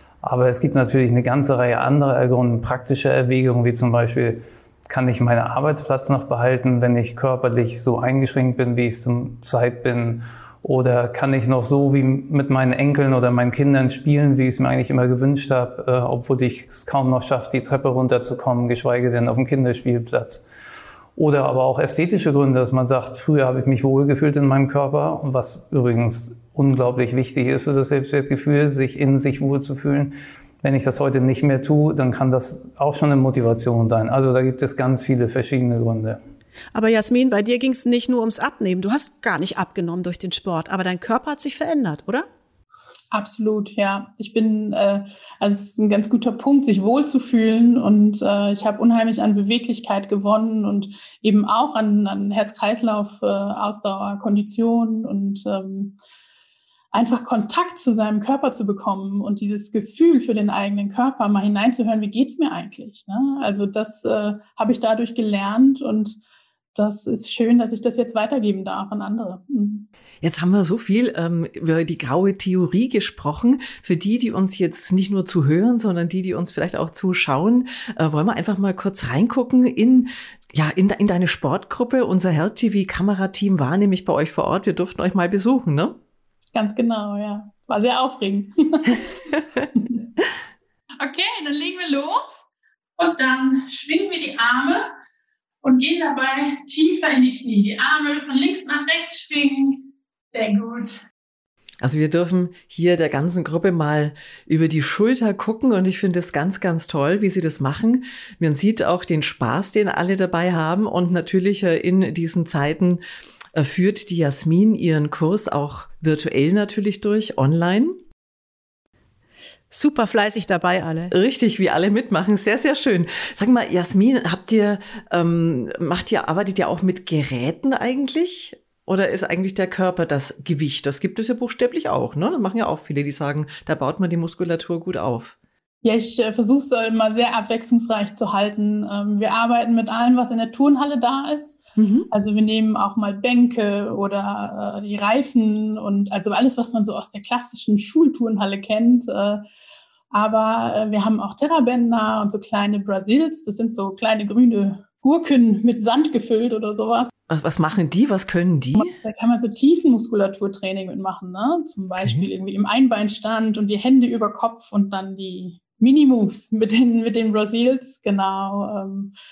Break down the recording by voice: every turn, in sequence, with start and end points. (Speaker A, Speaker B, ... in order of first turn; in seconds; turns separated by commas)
Speaker A: 0.2-20.4, Speaker A: 21.2-36.2, Speaker B: 36.7-42.3, Speaker C: 43.1-56.0, Speaker C: 56.9-66.2, Speaker C: 66.8-69.9, Speaker D: 70.2-86.0, Speaker C: 86.5-89.1, Speaker C: 91.0-92.4, Speaker C: 93.0-94.9, Speaker C: 95.6-101.0, Speaker D: 101.8-113.0, Speaker D: 113.5-118.0, Speaker B: 119.7-121.1, Speaker D: 121.1-135.3, Speaker C: 135.8-141.6, Speaker D: 141.8-142.1, Speaker C: 142.1-149.4, Speaker C: 150.1-157.1, Speaker D: 157.3-158.9, Speaker C: 158.8-169.1, Speaker D: 162.0-162.3